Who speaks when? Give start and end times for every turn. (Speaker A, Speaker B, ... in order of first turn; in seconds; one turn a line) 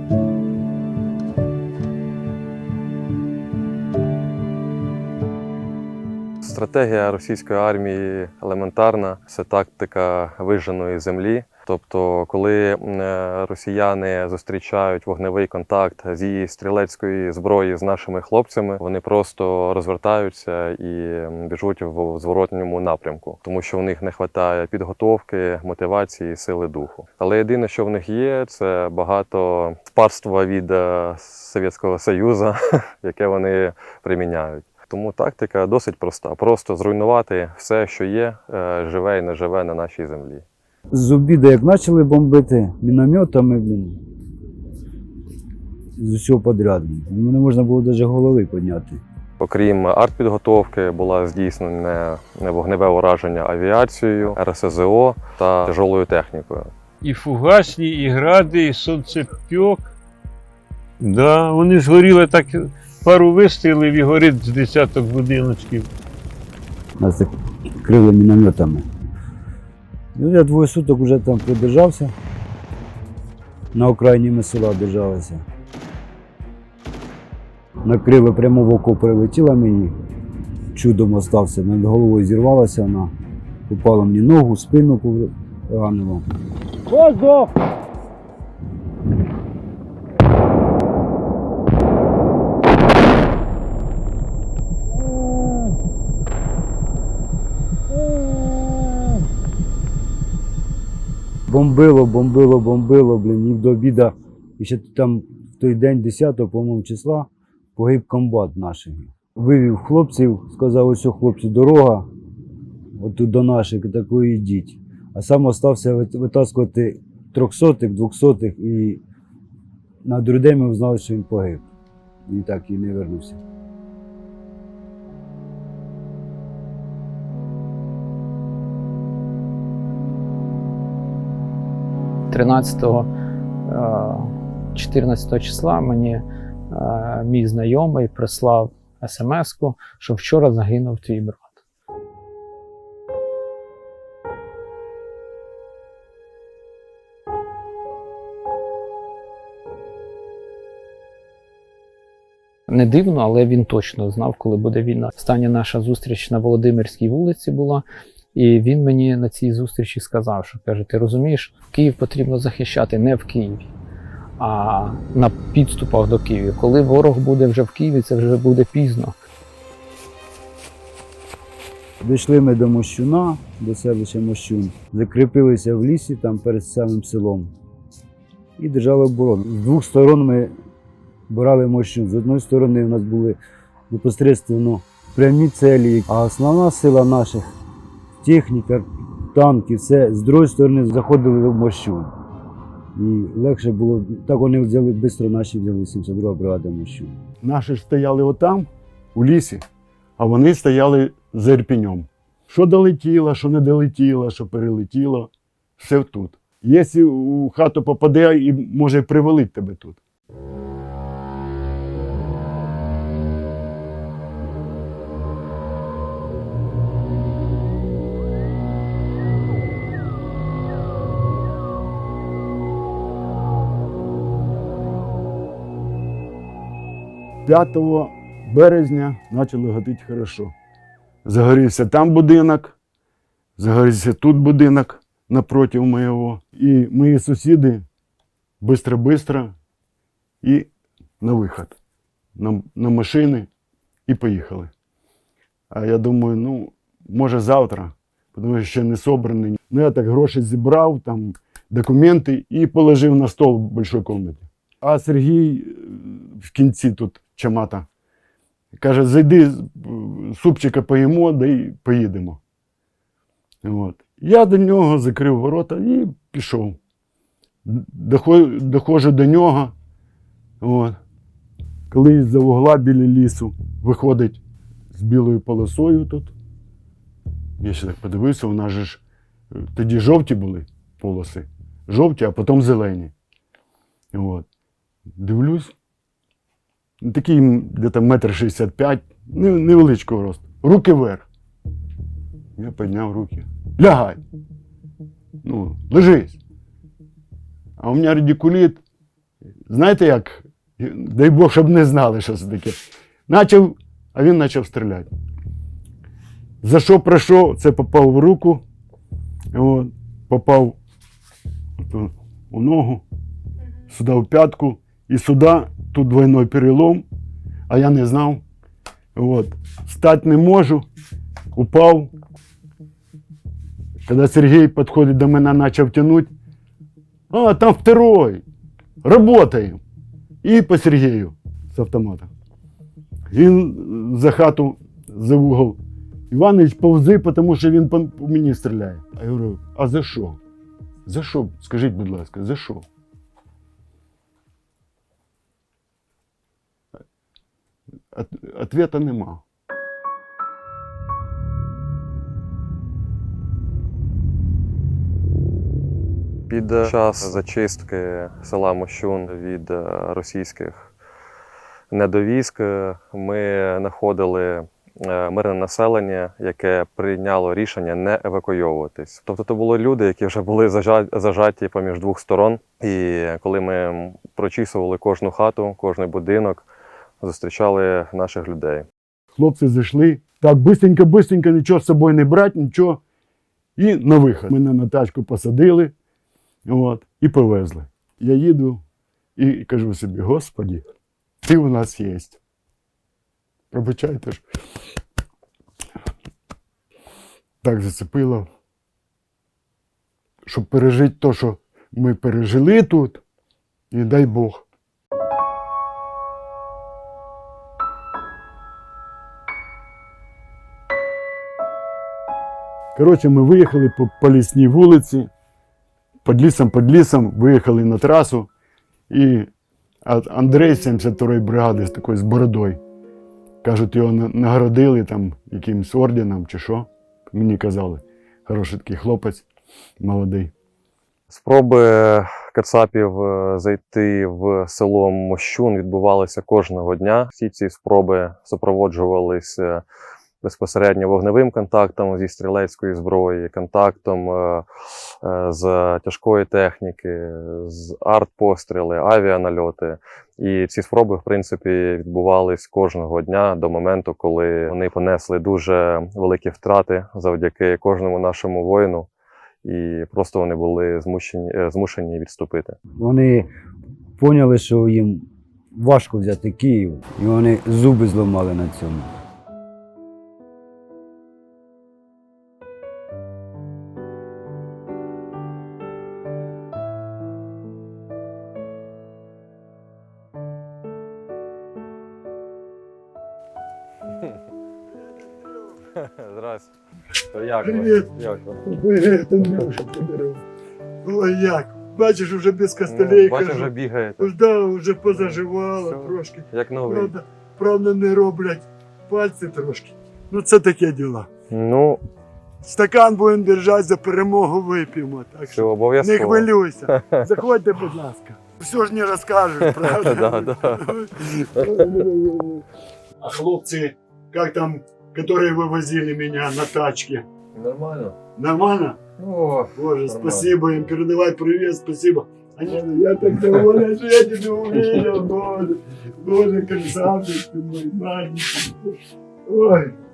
Speaker A: 6.4-40.5
Speaker B: 40.9-44.0
Speaker B: 46.0-49.0
Speaker A: 49.4-56.7
Speaker C: 57.0-59.9
Speaker C: 61.0-65.9
Speaker B: 67.0-68.9
Speaker B: 70.2-72.1
Speaker B: 73.7-75.4
Speaker B: 77.8-80.0
Speaker B: 80.7-83.1
Speaker B: 83.7-86.3
Speaker B: 86.9-87.5
Speaker B: 101.5-112.1
Speaker B: 113.0-119.0
Speaker B: 120.0-121.7
Speaker B: 122.3-123.4
Speaker D: 132.3-133.1
Speaker D: 133.7-141.6
Speaker D: 152.7-163.7
Speaker D: 164.4-169.2
Speaker B: 172.0-177.5
Speaker B: 178.6-180.5
Speaker B: 181.3-183.4
Speaker B: 183.9-187.5
Speaker B: 188.2-192.1
Speaker B: 192.9-197.2
Speaker E: 197.4-199.6
Speaker E: 200.2-210.0
Speaker E: 227.5-230.5
Speaker E: 231.2-232.8
Speaker E: 233.6-237.8
Speaker E: 238.6-239.5
Speaker E: 240.4-240.7
Speaker E: 241.2-241.8
Speaker E: 242.4-243.5
Speaker E: 244.1-244.7
Speaker E: 245.7-257.9
Speaker E: 258.8-262.4
Speaker E: 263.6-266.8
Speaker E: 267.7-269.7
Speaker E: 270.6-271.0
Speaker E: 271.9-274.4
Speaker E: 274.9-276.4
Speaker E: 277.6-279.0
Speaker E: 279.6-283.1
Speaker E: 284.1-284.5
Speaker E: 285.2-285.7
Speaker E: 287.0-291.3
Speaker E: 292.6-294.2
Speaker E: 295.4-296.4
Speaker E: 297.8-298.8
Speaker E: 299.7-302.8
Speaker E: 303.3-305.1
Speaker E: 306.6-308.6
Speaker E: 309.5-310.8
Speaker E: 311.8-313.0
Speaker E: 313.9-317.1
Speaker E: 317.7-318.4
Speaker E: 319.1-320.9
Speaker E: 321.5-322.1
Speaker E: 324.1-326.3
Speaker E: 327.3-328.4
Speaker E: 329.0-329.8
Speaker E: 330.4-332.3
Speaker E: 333.3-335.8
Speaker E: 336.3-340.4
Speaker E: 341.1-342.9
Speaker E: 348.1-349.4
Speaker A: 356.5-360.9
Speaker A: 361.9-376.7
Speaker A: 377.2-378.9
Speaker E: 379.4-383.0
Speaker E: 383.8-385.9
Speaker E: 386.6-388.8
Speaker E: 389.4-390.9
Speaker E: 391.4-392.4
Speaker E: 393.7-394.4
Speaker E: 397.6-398.5
Speaker E: 400.5-403.2
Speaker E: 403.9-404.6
Speaker E: 412.9-415.3
Speaker E: 416.2-418.5
Speaker E: 419.1-419.5
Speaker E: 420.1-422.8
Speaker E: 423.6-429.5
Speaker E: 430.0-430.5
Speaker A: 431.3-439.8
Speaker A: 440.4-444.6
Speaker A: 445.2-459.1
Speaker A: 459.6-462.8
Speaker B: 463.0-463.5
Speaker B: 464.2-469.1
Speaker A: 486.0-486.7
Speaker A: 487.3-488.6
Speaker E: 487.6-488.1
Speaker E: 488.6-490.4
Speaker E: 491.0-501.3
Speaker A: 492.8-494.3
Speaker A: 495.1-497.1
Speaker A: 501.5-502.0
Speaker E: 502.6-512.6
Speaker A: 505.5-507.2
Speaker A: 509.6-510.9
Speaker E: 513.2-517.3
Speaker A: 517.5-518.2
Speaker E: 518.4-519.0
Speaker A: 519.2-520.6
Speaker E: 519.8-529.0
Speaker E: 529.5-529.9